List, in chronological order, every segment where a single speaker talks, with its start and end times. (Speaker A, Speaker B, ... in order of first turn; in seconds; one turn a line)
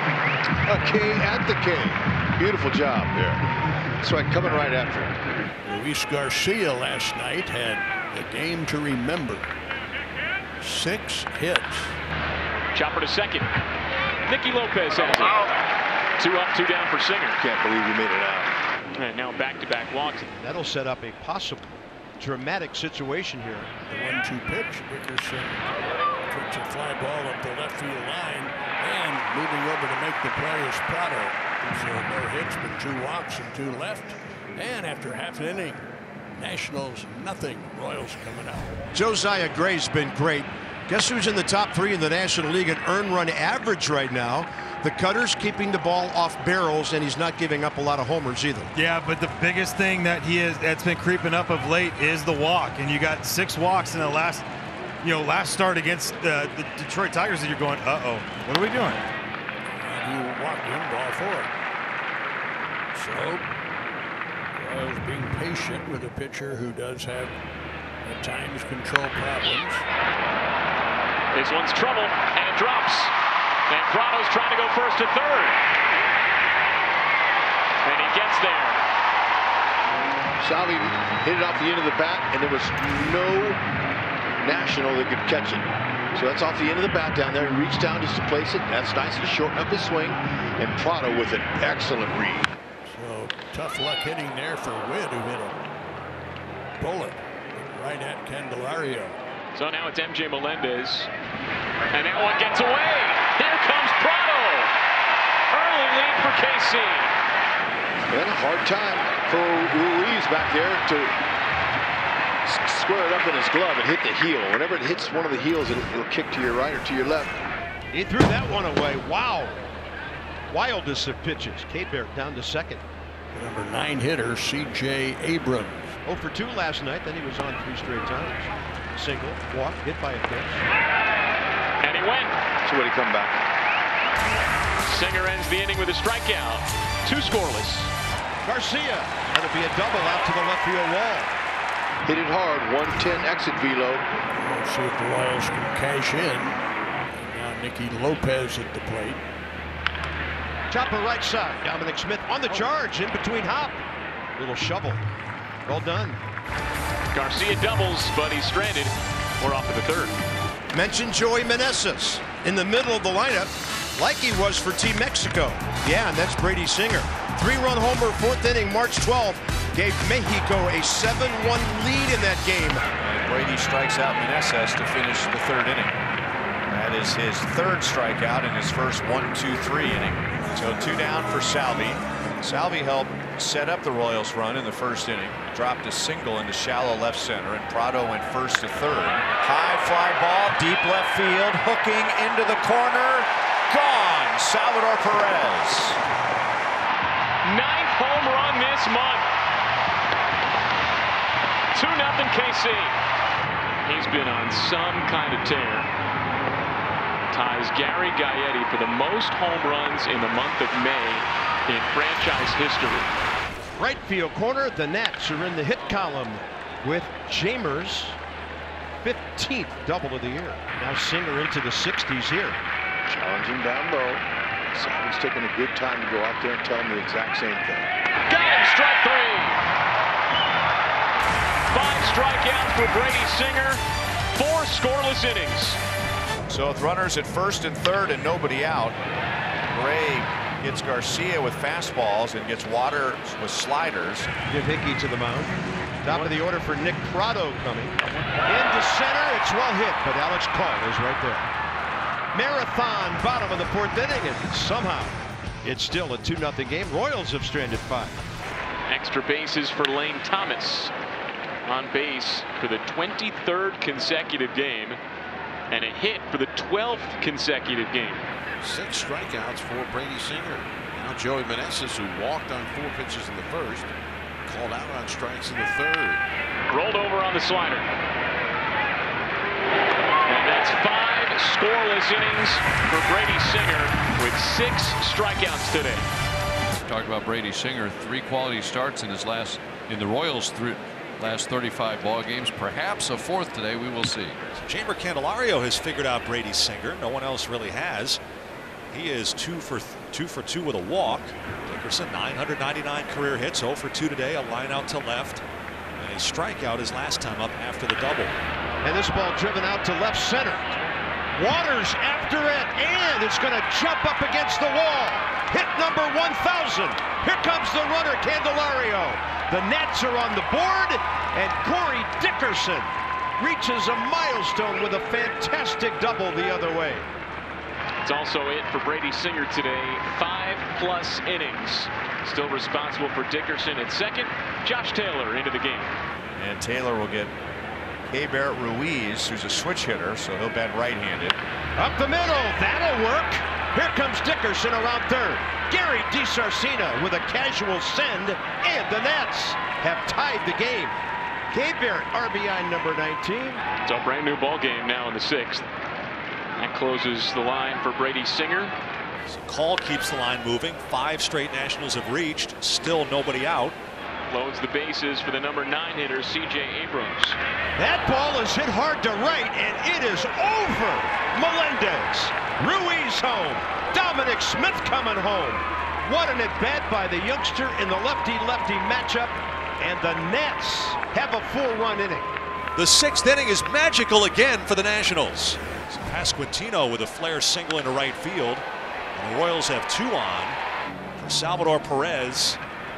Speaker A: 0.6-3.4
Speaker A: 4.0-5.2
Speaker B: 5.7-9.5
Speaker B: 10.6-11.9
Speaker C: 12.7-13.5
Speaker C: 14.3-15.4
Speaker C: 16.2-17.4
Speaker A: 17.4-18.5
Speaker C: 19.0-20.3
Speaker D: 20.4-23.7
Speaker B: 23.9-25.6
Speaker B: 26.3-35.8
Speaker B: 36.4-38.7
Speaker D: 38.9-48.7
Speaker E: 48.8-54.5
Speaker E: 55.0-59.1
Speaker B: 59.7-61.5
Speaker B: 62.9-63.5
Speaker B: 64.6-67.4
Speaker B: 68.0-69.8
Speaker C: 71.3-73.1
Speaker C: 73.7-75.6
Speaker C: 77.8-78.8
Speaker A: 80.4-83.6
Speaker A: 84.4-92.5
Speaker B: 92.8-95.6
Speaker B: 96.8-99.2
Speaker C: 99.5-101.1
Speaker C: 101.9-104.7
Speaker C: 105.5-107.1
Speaker A: 108.1-111.2
Speaker A: 112.5-117.4
Speaker D: 117.9-119.7
Speaker D: 120.5-122.8
Speaker B: 123.3-125.9
Speaker D: 126.0-130.6
Speaker C: 131.8-132.3
Speaker A: 132.7-133.4
Speaker C: 134.9-137.9
Speaker D: 138.4-141.3
Speaker A: 142.1-144.1
Speaker B: 144.4-146.6
Speaker B: 147.1-149.2
Speaker D: 150.7-153.8
Speaker D: 154.4-155.0
Speaker D: 155.7-156.2
Speaker C: 157.1-160.2
Speaker D: 160.7-172.9
Speaker F: 173.0-175.9
Speaker F: 176.7-196.0
Speaker C: 197.4-199.3
Speaker C: 201.7-203.0
Speaker C: 203.9-205.9
Speaker C: 207.3-213.1
Speaker D: 213.8-218.2
Speaker D: 219.0-222.6
Speaker A: 223.1-227.9
Speaker C: 228.3-229.6
Speaker C: 231.7-233.8
Speaker C: 234.3-235.8
Speaker F: 236.5-239.0
Speaker F: 239.7-244.3
Speaker D: 244.5-248.0
Speaker C: 246.1-246.3
Speaker D: 248.5-251.5
Speaker D: 252.3-258.2
Speaker C: 258.9-260.9
Speaker C: 261.7-265.0
Speaker C: 265.7-268.2
Speaker G: 268.6-273.9
Speaker G: 274.5-276.2
Speaker C: 276.7-277.9
Speaker C: 280.3-286.0
Speaker H: 286.8-294.4
Speaker I: 294.5-298.2
Speaker I: 298.9-305.4
Speaker I: 306.0-308.4
Speaker D: 308.8-310.7
Speaker D: 311.3-327.1
Speaker C: 328.0-335.9
Speaker F: 336.4-337.3
Speaker F: 338.1-341.4
Speaker D: 341.8-351.0
Speaker D: 351.5-353.6
Speaker C: 353.8-355.6
Speaker C: 356.6-358.7
Speaker I: 359.3-363.8
Speaker C: 364.3-367.4
Speaker D: 367.8-382.3
Speaker I: 382.8-390.6
Speaker I: 391.2-392.6